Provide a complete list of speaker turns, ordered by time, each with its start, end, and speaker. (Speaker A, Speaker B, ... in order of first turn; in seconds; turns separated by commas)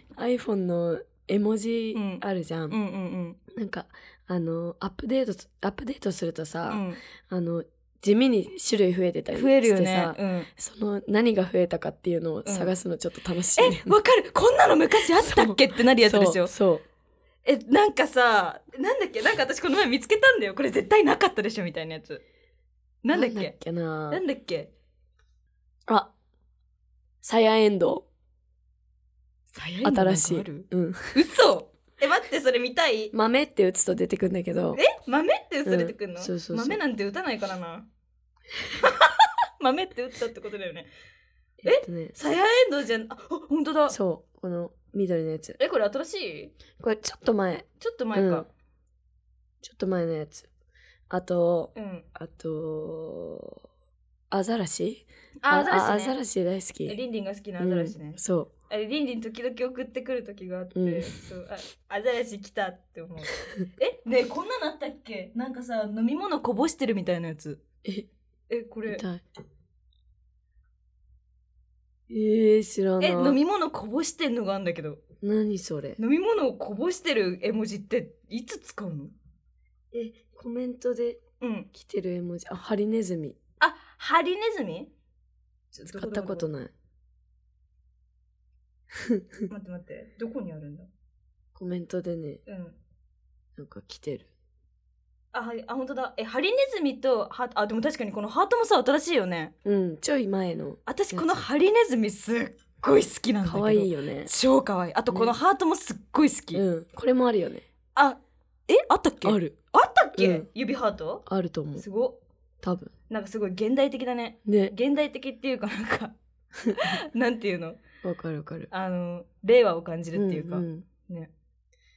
Speaker A: 0.1-2.8, Speaker B: 1.9-3.4, Speaker A: 3.5-14.0, Speaker B: 6.7-7.0, Speaker B: 9.3-10.5, Speaker B: 12.5-12.7, Speaker B: 13.6-16.5, Speaker A: 15.2-16.8, Speaker B: 17.4-22.2, Speaker B: 23.0-23.6, Speaker A: 23.1-24.2, Speaker B: 24.1-24.7, Speaker A: 27.2-28.1, Speaker B: 29.5-33.1, Speaker A: 29.8-31.1, Speaker A: 33.1-34.8, Speaker B: 34.8-37.9, Speaker A: 35.6-36.8, Speaker B: 38.8-40.9, Speaker A: 41.6-42.1, Speaker B: 41.6-44.0, Speaker A: 43.9-45.6, Speaker B: 45.6-46.5, Speaker A: 46.8-48.5, Speaker B: 47.8-48.5, Speaker A: 49.6-50.5, Speaker A: 51.1-53.6, Speaker B: 51.8-52.1, Speaker A: 54.3-57.0, Speaker B: 55.4-56.1, Speaker B: 56.9-67.6, Speaker A: 57.6-58.5, Speaker A: 60.7-61.1, Speaker B: 68.5-69.0, Speaker A: 68.9-69.2, Speaker A: 72.1-73.4, Speaker B: 73.0-75.0, Speaker A: 75.2-76.0, Speaker B: 76.0-79.1, Speaker A: 79.9-81.2, Speaker B: 81.4-81.7, Speaker A: 81.7-83.4, Speaker B: 83.6-84.9, Speaker B: 85.7-86.5, Speaker A: 85.8-86.7, Speaker A: 89.0-89.4, Speaker B: 89.5-90.9, Speaker A: 91.6-92.4, Speaker B: 92.5-92.8, Speaker A: 93.6-94.3, Speaker B: 95.3-99.5, Speaker A: 99.7-101.4, Speaker B: 100.9-106.6, Speaker A: 103.5-104.3, Speaker A: 105.1-105.4, Speaker A: 106.5-107.6, Speaker B: 108.0-111.2, Speaker A: 109.2-109.6, Speaker A: 110.2-110.5, Speaker A: 111.3-111.8, Speaker B: 111.8-112.2, Speaker A: 112.6-112.9, Speaker B: 113.1-116.2, Speaker A: 114.5-114.7, Speaker A: 116.6-117.0, Speaker B: 116.8-117.8, Speaker A: 118.0-118.7, Speaker B: 118.7-121.3, Speaker A: 120.1-120.9